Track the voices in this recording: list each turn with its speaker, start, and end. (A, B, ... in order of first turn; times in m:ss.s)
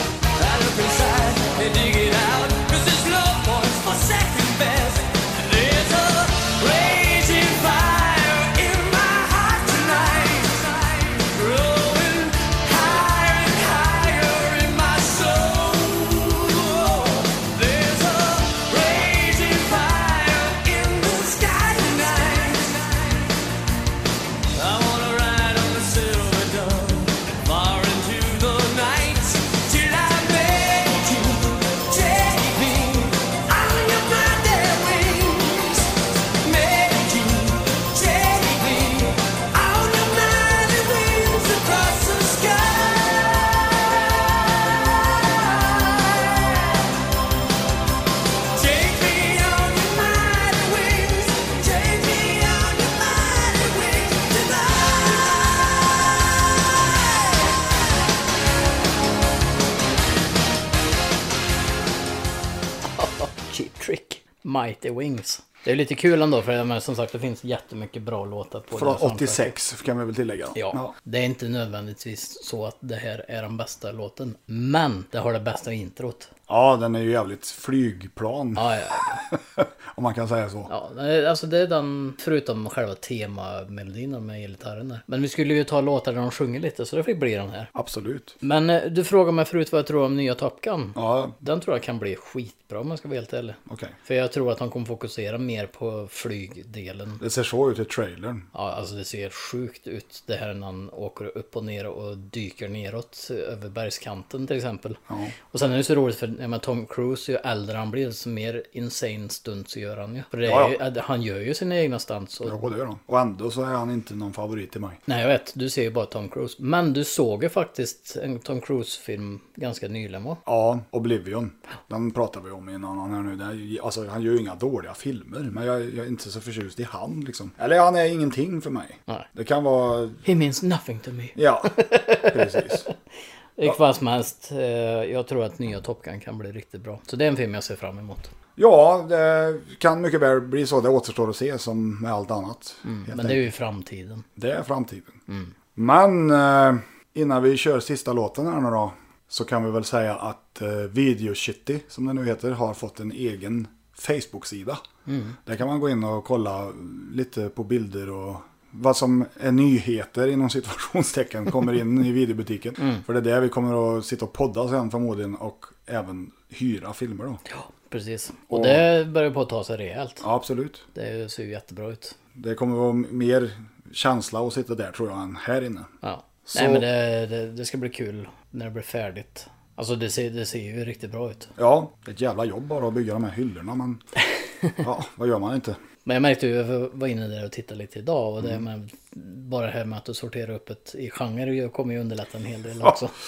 0:00.3-0:23.3 A
0:24.5-0:35.9 A
0:36.4-0:46.9 A
0:48.5-0:56.2 A
1:03.0-1:09.5 B
1:08.7-1:10.9 C
1:10.5-1:16.3 B
1:16.5-1:20.7 C
1:18.6-1:19.2 B
1:20.7-1:27.7 B
1:27.7-1:28.4 C
1:28.4-1:37.2 B
1:30.9-1:31.4 C
1:33.7-1:33.9 C
1:37.2-1:38.5 C
1:38.5-1:45.0 B
1:45.1-1:45.3 C
1:45.5-1:52.6 B
1:50.4-1:50.8 C
1:52.4-1:55.0 C
1:55.1-2:00.4 B
2:00.4-2:10.2 C
2:10.2-2:12.9 B
2:11.4-2:12.9 C
2:13.6-2:18.3 B
2:18.6-2:23.4 C
2:22.8-2:24.2 B
2:24.4-2:25.2 C
2:25.8-2:34.8 C
2:35.1-2:35.4 B
2:35.4-2:47.4 C
2:47.5-2:50.2 B
2:48.5-2:48.9 C
2:50.2-2:50.8 C
2:50.9-2:52.2 B
2:52.3-2:55.9 C
2:56.0-3:01.5 B
2:56.4-2:56.8 C
3:01.6-3:04.0 C
3:04.8-3:05.8 C
3:06.0-3:13.1 B